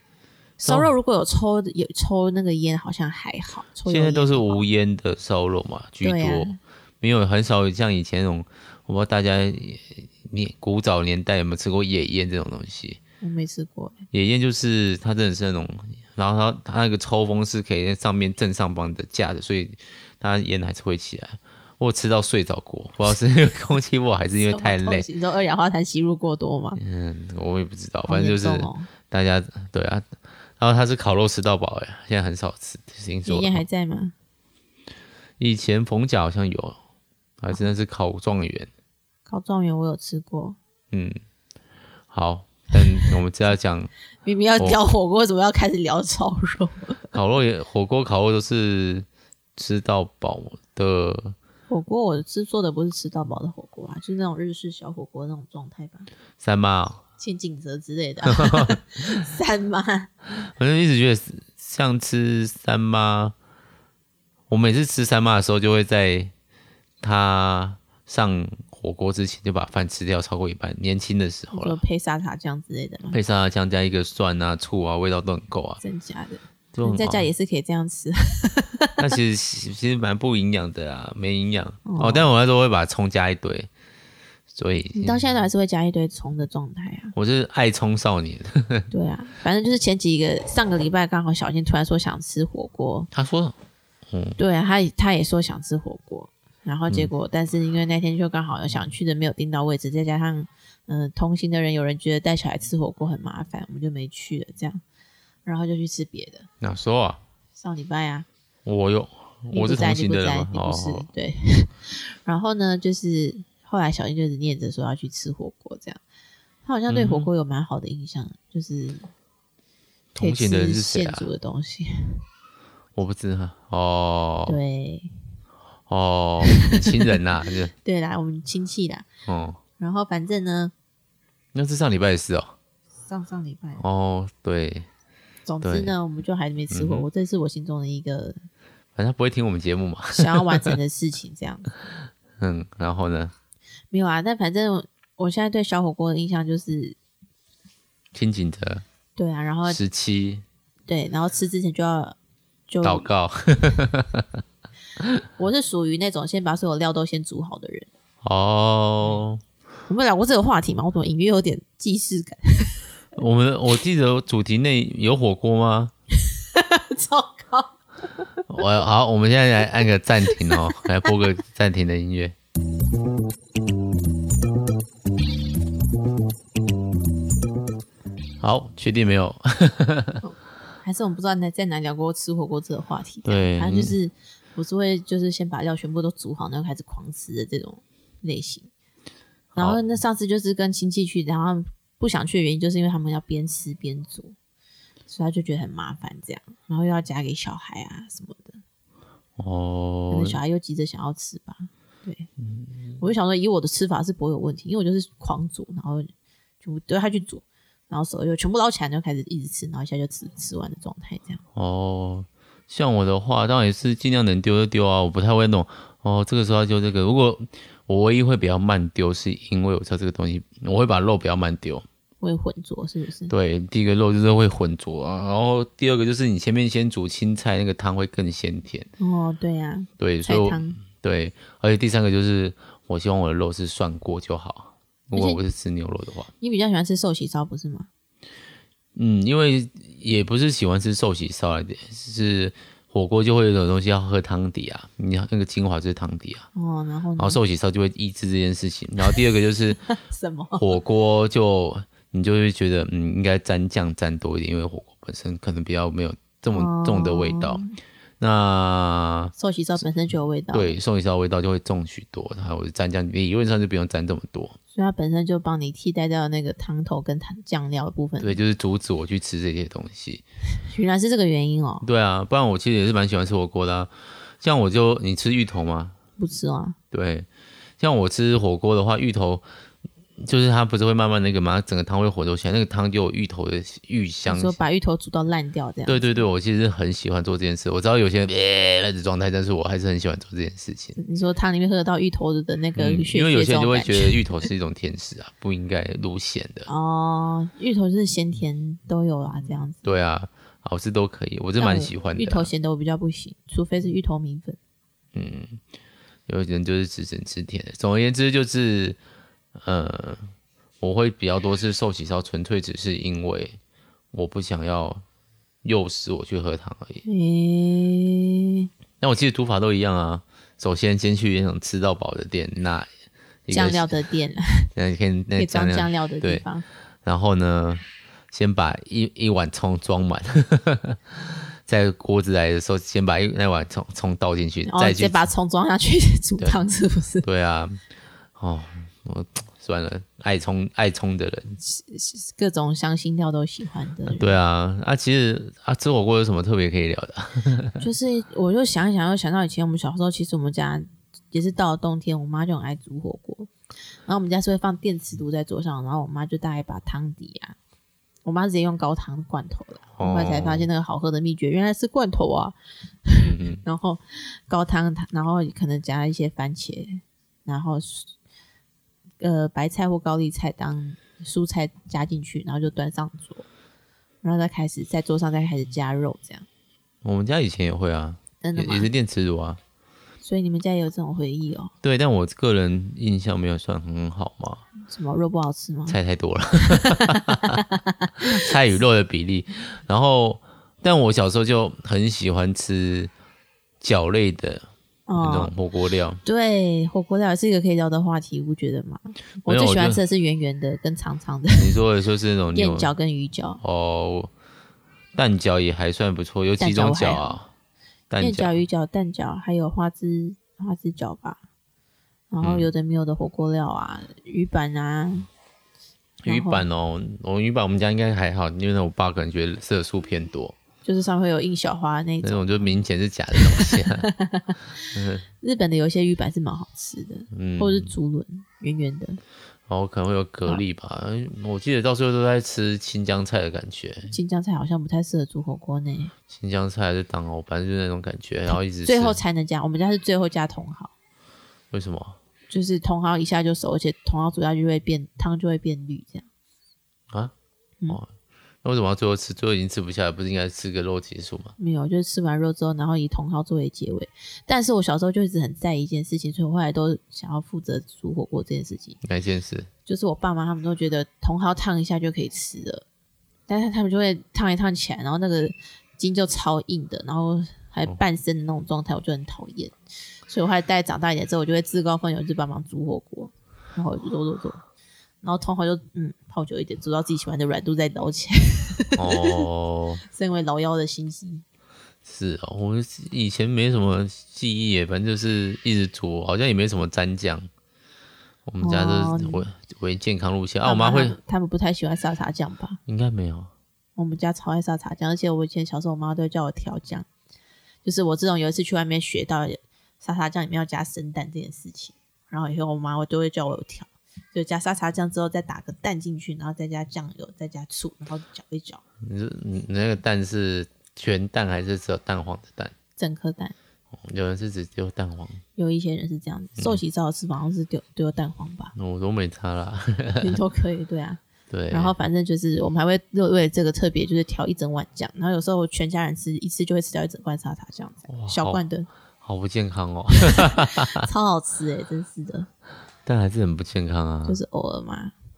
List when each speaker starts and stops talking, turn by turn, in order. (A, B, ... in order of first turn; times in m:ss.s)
0:00.6-0:04.6 A
0:00.6-0:00.9 B
0:03.8-0:13.0 B
0:06.0-0:06.6 A
0:13.2-0:14.0 A
0:14.1-0:25.1 B
0:24.4-0:26.8 A
0:26.8-0:33.6 B
0:28.1-0:28.9 A
0:33.2-0:34.1 A
0:35.4-0:36.8 B
0:37.4-0:38.7 B
0:39.3-0:40.6 A
0:40.9-0:41.2 B
0:42.1-0:43.9 B
0:42.7-0:43.1 A
0:44.2-0:47.1 A
0:47.1-0:51.4 B
0:51.7-0:56.1 A
0:56.4-0:57.0 B
0:57.2-1:00.1 A
0:58.3-0:58.8 B
1:00.4-1:03.3 B
1:04.5-1:06.3 B
1:07.0-1:11.8 B
1:11.5-1:13.2 A
1:13.1-1:15.8 B
1:15.8-1:19.1 A
1:16.7-1:17.3 B
1:19.0-1:23.7 B
1:21.8-1:22.3 A
1:24.5-1:25.2 B
1:24.9-1:27.1 A
1:27.1-1:28.9 B
1:28.9-1:33.1 A
1:33.1-1:33.6 B
1:34.1-1:34.4 B
1:34.4-1:44.8 A
1:45.4-1:46.5 A
1:46.6-1:47.2 B
1:47.6-1:48.3 A
1:48.6-1:51.1 B
1:49.5-1:56.0 A
1:56.6-1:59.1 A
1:56.9-1:57.3 B
2:00.1-2:01.3 B
2:00.2-2:02.2 A
2:02.9-2:04.6 B
2:04.5-2:05.1 A
2:05.9-2:07.7 B
2:06.4-2:07.1 A
2:07.8-2:09.0 A
2:09.2-2:09.6 B
2:09.8-2:10.7 A
2:11.5-2:12.5 B
2:13.0-2:13.8 A
2:13.8-2:14.9 B
2:15.4-2:18.4 A
2:15.6-2:15.9 B
2:16.7-2:17.0 B
2:19.0-2:20.7 B
2:20.1-2:21.7 A
2:22.4-2:23.3 B
2:23.9-2:27.0 A
2:28.1-2:28.8 B
2:29.2-2:29.8 A
2:29.6-2:30.4 B
2:30.9-2:32.2 A
2:32.7-2:33.1 A
2:32.8-2:34.4 B
2:35.4-2:37.9 A
2:38.2-2:39.4 B
2:39.9-2:42.8 A
2:43.1-2:45.9 B
2:46.4-2:48.3 A
2:48.5-2:52.3 B
2:50.3-2:51.1 A
2:58.4-3:00.2 B
3:00.2-3:08.7 A
3:03.2-3:04.0 B
3:09.5-3:09.8 B
3:09.6-3:14.3 A
3:15.1-3:18.6 A
3:19.4-3:20.4 B
3:20.1-3:22.3 A
3:22.4-3:23.0 B
3:23.0-3:26.1 A
3:26.6-3:31.4 A
3:31.5-3:41.8 B
3:42.2-3:43.3 A
3:43.3-3:48.9 B
3:49.0-3:50.8 A
3:50.0-3:56.3 B
3:55.1-3:55.4 A
3:56.4-3:57.9 A
3:58.9-4:06.5 B
4:06.5-4:07.4 A
4:07.2-4:09.8 B
4:09.9-4:10.7 A
4:10.6-4:17.6 B
4:16.5-4:17.8 A
4:18.2-4:19.3 B
4:19.4-4:20.8 A
4:20.5-4:24.6 B
4:24.7-4:28.4 A
4:28.2-4:30.2 B
4:30.6-4:31.8 A
4:31.8-4:36.0 B
4:36.2-4:36.8 A
4:36.9-4:37.3 B
4:37.8-4:39.4 B
4:40.2-4:44.6 B
4:44.3-4:46.2 A
4:45.8-4:51.0 B
4:51.0-4:54.4 A
4:52.8-4:56.7 B
4:56.7-4:59.8 A
4:59.8-5:02.5 B
5:01.6-5:04.6 A
5:05.1-5:05.6 B
5:06.3-5:09.0 B
5:09.6-5:13.6 B
5:14.1-5:15.0 B
5:15.6-5:17.0 B
5:17.0-5:18.7 A
5:19.0-5:22.9 B
5:23.5-5:23.9 B
5:23.5-5:24.7 A
5:24.7-5:26.4 B
5:25.4-5:26.6 A
5:27.0-5:35.2 B
5:34.6-5:37.2 A
5:37.2-5:37.8 B
5:38.4-5:41.6 B
5:41.6-5:44.3 A
5:44.1-5:47.8 B
5:47.8-5:53.5 A
5:54.0-5:57.6 A
5:58.2-6:08.1 A
6:00.0-6:00.7 B
6:03.2-6:03.6 B
6:09.2-6:13.5 A
6:14.2-6:16.5 A
6:17.0-6:19.6 B
6:18.4-6:18.9 A
6:20.2-6:21.7 A
6:21.8-6:24.6 B
6:24.8-6:26.0 A
6:25.9-6:27.6 B
6:26.6-6:28.5 A
6:28.2-6:33.1 B
6:33.8-6:36.2 B
6:35.1-6:35.5 A
6:36.2-6:41.8 A
6:39.4-6:40.0 B
6:41.6-6:42.9 B
6:42.5-6:43.6 A
6:43.6-6:44.3 B
6:45.1-6:47.5 B
6:46.6-6:47.4 A
6:48.1-6:48.6 B
6:48.2-6:51.4 A
6:52.3-6:55.3 A
6:52.4-6:52.7 B
6:56.2-7:00.6 B
6:56.2-6:56.6 A
7:00.8-7:02.8 A
7:02.2-7:04.1 B
7:03.3-7:09.2 A
7:04.9-7:05.2 B
7:07.3-7:07.9 B
7:09.7-7:14.1 B
7:14.1-7:16.1 A
7:16.3-7:19.2 B
7:18.5-7:20.9 A
7:21.7-7:22.2 B
7:22.5-7:26.2 A
7:28.6-7:31.6 B
7:31.6-7:39.0 A
7:39.0-7:39.7 B
7:39.8-7:42.8 A
7:43.5-7:49.7 A
7:50.3-7:54.6 A
7:55.2-7:59.4 A
7:59.0-8:00.0 B
8:00.1-8:01.4 A
8:02.0-8:07.5 B
8:08.4-8:11.2 B
8:08.6-8:09.5 A
8:10.6-8:12.8 A
8:12.9-8:13.5 B
8:14.0-8:17.1 A
8:17.8-8:28.8 A
8:29.0-8:32.7 B
8:33.0-8:33.5 A
8:33.9-8:35.4 B
8:35.6-8:38.7 A
8:38.7-8:40.4 B
8:40.2-8:48.9 A
8:41.5-8:41.9 B
8:48.1-8:48.6 B
8:49.2-8:51.0 B
8:50.2-8:52.5 A
8:53.0-8:54.4 B
8:54.2-8:55.1 A